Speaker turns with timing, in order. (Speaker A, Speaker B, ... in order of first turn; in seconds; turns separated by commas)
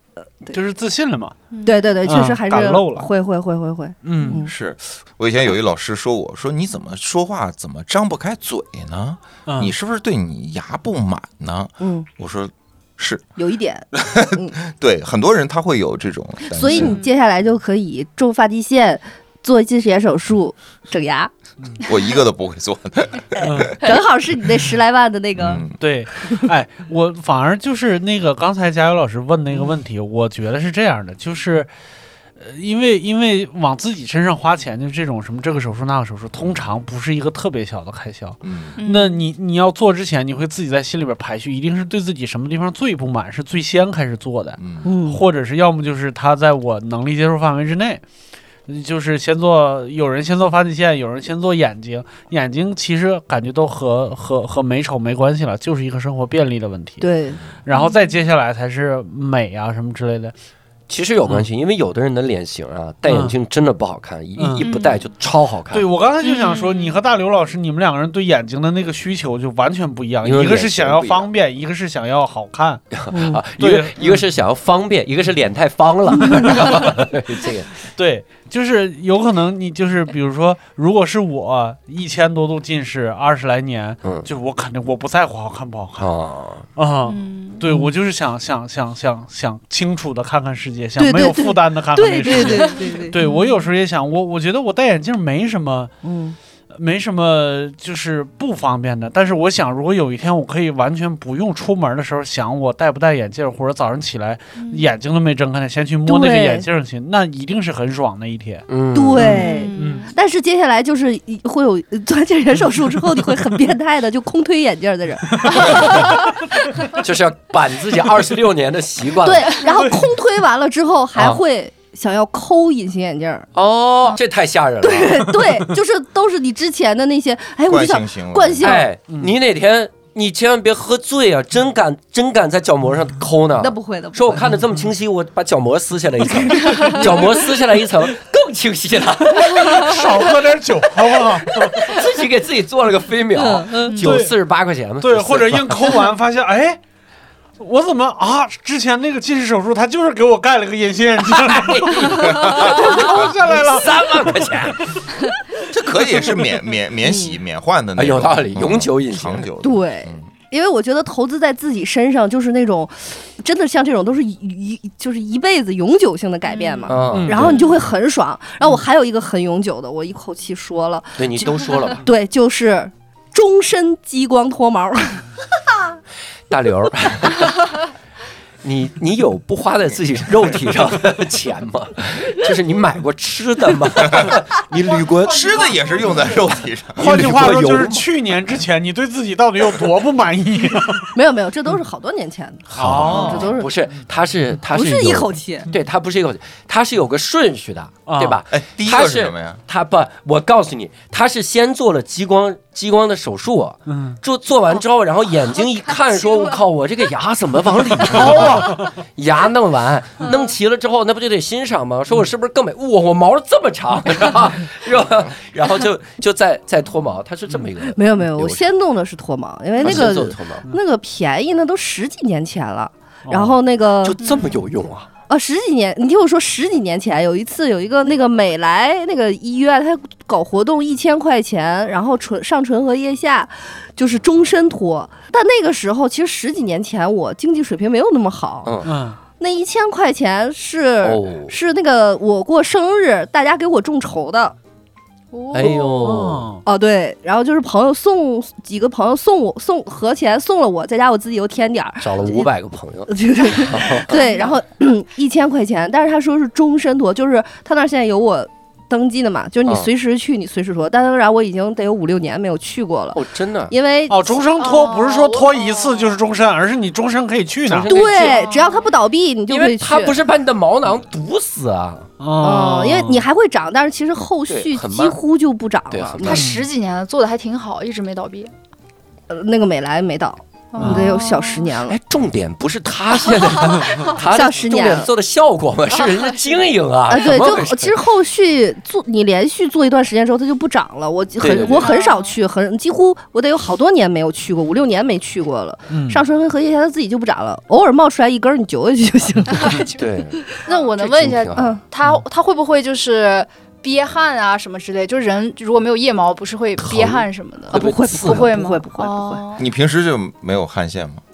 Speaker A: 0.5-1.4, Speaker B: 1.5-1.8, Speaker C: 1.6-4.5, Speaker A: 2.0-3.1, Speaker A: 4.0-4.4, Speaker D: 4.4-13.2, Speaker A: 9.4-9.7, Speaker C: 11.8-12.1, Speaker C: 13.4-14.5, Speaker D: 13.9-17.0, Speaker C: 16.5-21.3, Speaker B: 16.7-17.1, Speaker D: 21.8-23.8, Speaker A: 23.4-23.8, Speaker C: 23.8-25.6, Speaker D: 25.4-25.8, Speaker A: 25.8-31.7, Speaker A: 32.4-48.0, Speaker D: 38.4-38.8, Speaker B: 38.8-39.2, Speaker D: 44.6-44.9, Speaker C: 44.8-45.2, Speaker A: 48.7-57.1, Speaker C: 57.0-57.4, Speaker A: 57.6-60.3, Speaker B: 57.7-58.1, Speaker E: 60.9-65.8, Speaker A: 63.1-63.3, Speaker A: 64.4-64.7, Speaker B: 64.6-65.0, Speaker A: 65.7-72.8, Speaker B: 66.2-67.0, Speaker E: 70.2-71.3, Speaker E: 72.9-77.7, Speaker C: 73.1-73.4, Speaker A: 73.6-74.2, Speaker A: 77.9-86.1, Speaker E: 84.0-84.3, Speaker E: 86.0-86.7, Speaker A: 86.8-95.9, Speaker B: 87.0-87.6, Speaker C: 91.0-93.2, Speaker B: 92.3-93.7, Speaker C: 96.0-96.3, Speaker A: 96.7-108.7, Speaker B: 104.6-104.9, Speaker C: 106.0-106.6, Speaker E: 108.7-109.4, Speaker C: 108.9-116.2, Speaker A: 109.2-110.1, Speaker B: 109.2-110.1, Speaker E: 115.6-116.0, Speaker E: 116.9-119.6, Speaker C: 119.2-123.5, Speaker A: 119.7-120.0, Speaker E: 121.2-121.4, Speaker E: 123.5-125.5, Speaker C: 124.8-128.9, Speaker D: 127.7-128.8, Speaker E: 128.6-140.3, Speaker C: 133.6-134.3, Speaker A: 139.5-141.8, Speaker E: 141.4-146.0, Speaker C: 143.3-143.9, Speaker B: 143.9-144.1, Speaker A: 144.0-144.3, Speaker A: 145.0-146.8, Speaker A: 147.6-154.3, Speaker E: 151.2-155.0, Speaker D: 152.3-152.7, Speaker D: 155.7-160.3, Speaker C: 157.0-157.3, Speaker E: 157.9-159.5, Speaker C: 159.6-175.2, Speaker B: 166.5-167.7, Speaker E: 166.9-167.7, Speaker A: 167.1-167.6, Speaker E: 171.2-172.0, Speaker E: 176.5-177.7, Speaker E: 178.6-185.7, Speaker D: 184.1-184.3, Speaker D: 185.2-187.2, Speaker E: 187.0-188.1, Speaker A: 187.0-191.1, Speaker C: 191.1-193.7, Speaker E: 192.7-218.7, Speaker A: 192.7-193.5, Speaker C: 194.7-195.7, Speaker A: 198.1-198.4, Speaker D: 198.5-199.6, Speaker A: 203.9-204.2, Speaker A: 208.1-208.9, Speaker C: 217.9-224.2, Speaker E: 219.8-220.7, Speaker A: 223.3-223.5, Speaker E: 224.0-225.1, Speaker B: 224.2-224.6, Speaker C: 225.3-238.7, Speaker E: 238.6-238.9, Speaker A: 238.8-239.2, Speaker C: 239.4-244.5, Speaker E: 241.0-241.5, Speaker B: 245.3-246.0, Speaker E: 245.5-246.5, Speaker C: 245.6-252.5, Speaker A: 246.0-246.6, Speaker E: 252.0-254.4, Speaker C: 253.1-264.4, Speaker B: 254.2-254.5, Speaker E: 263.1-263.7, Speaker A: 264.1-267.9, Speaker B: 264.6-266.2, Speaker E: 267.6-268.4, Speaker C: 267.9-270.2, Speaker B: 268.0-268.9, Speaker E: 269.5-272.1, Speaker A: 272.2-273.2, Speaker C: 272.4-276.4, Speaker E: 274.5-275.2, Speaker E: 275.9-276.4, Speaker B: 276.2-278.5, Speaker A: 276.3-276.6, Speaker C: 279.3-281.9, Speaker B: 280.7-281.7, Speaker E: 281.8-287.9, Speaker C: 284.1-285.1, Speaker B: 286.0-286.5, Speaker C: 287.1-299.9, Speaker E: 291.4-291.9, Speaker B: 291.6-292.4, Speaker A: 295.9-296.2, Speaker B: 299.5-300.0, Speaker E: 299.9-300.4, Speaker B: 300.6-309.6, Speaker E: 301.0-301.7, Speaker C: 301.5-301.8, Speaker E: 306.8-308.5, Speaker C: 307.7-309.4, Speaker D: 309.6-311.2